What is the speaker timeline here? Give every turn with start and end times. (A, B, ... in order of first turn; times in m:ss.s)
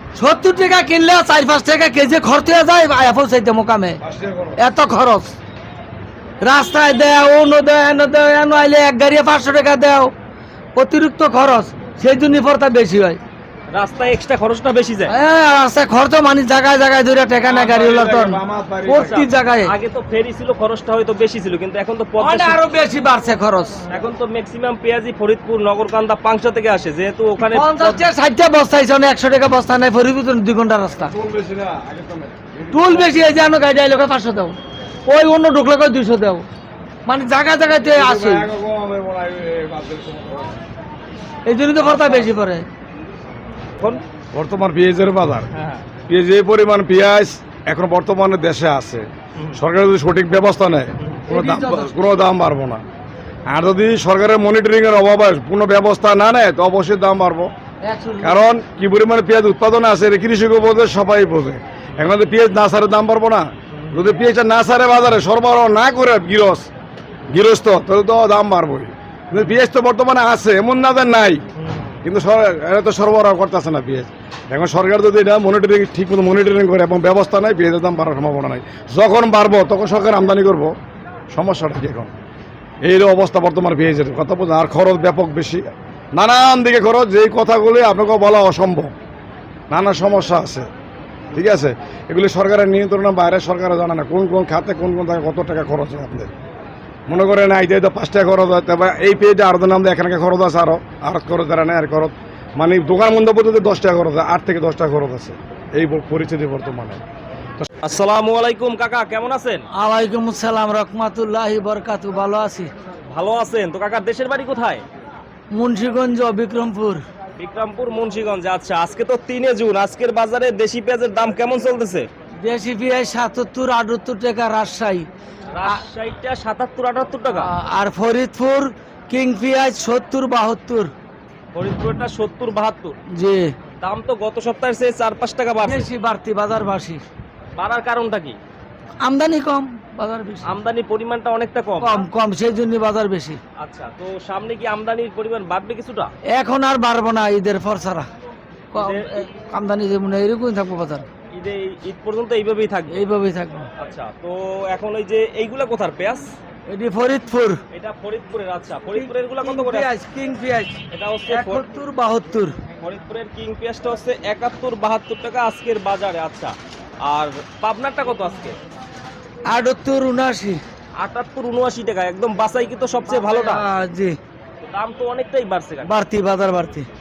0:00.2-0:04.0 A
0:04.0-0:04.6 B
0:04.6-0:05.3 A
0:06.4-0:10.1 A
0:10.8-0:13.2 A
0:13.7-0:15.1 C
0:15.1-0:19.7 A
0:17.4-0:19.3 B
0:18.9-0:22.6 C
0:22.2-0:23.8 A
0:23.9-0:28.0 C
0:27.5-0:31.1 A
0:31.1-0:33.2 B
0:32.7-0:34.6 A
0:35.1-0:36.4 A
0:37.0-0:38.5 A
0:37.8-0:40.6 B
0:41.5-0:42.6 A
0:41.8-0:42.3 C
0:44.3-0:45.5 B
0:45.5-0:45.8 C
0:46.1-0:52.8 B
0:51.3-0:52.0 A
0:53.5-0:57.5 B
0:57.8-0:58.4 A
0:58.2-1:06.7 B
1:07.3-1:11.4 B
1:12.0-1:20.7 B
1:21.3-1:22.1 B
1:22.8-1:28.9 B
1:29.7-1:30.7 B
1:31.3-1:36.3 B
1:37.1-1:47.0 B
1:47.8-1:49.6 C
1:49.7-1:52.7 A
1:53.1-1:54.8 C
1:55.5-1:57.0 A
1:57.4-2:02.1 C
2:02.4-2:05.1 A
2:05.5-2:07.5 C
2:07.3-2:10.9 A
2:11.5-2:13.0 C
2:13.1-2:13.5 A
2:13.8-2:15.9 C
2:15.6-2:17.0 A
2:17.6-2:18.4 C
2:19.0-2:20.5 A
2:20.4-2:22.0 C
2:21.8-2:23.4 A
2:23.6-2:26.1 C
2:26.3-2:28.1 A
2:28.7-2:31.0 A
2:28.8-2:29.2 C
2:31.3-2:33.0 C
2:32.9-2:33.7 A
2:33.8-2:36.3 C
2:36.7-2:37.6 A
2:37.7-2:39.9 C
2:39.0-2:42.5 A
2:40.9-2:41.6 C
2:42.8-2:48.6 C
2:49.5-2:50.6 A
2:51.0-2:53.6 C
2:53.1-2:54.2 A
2:54.6-2:55.9 C
2:55.8-2:56.8 A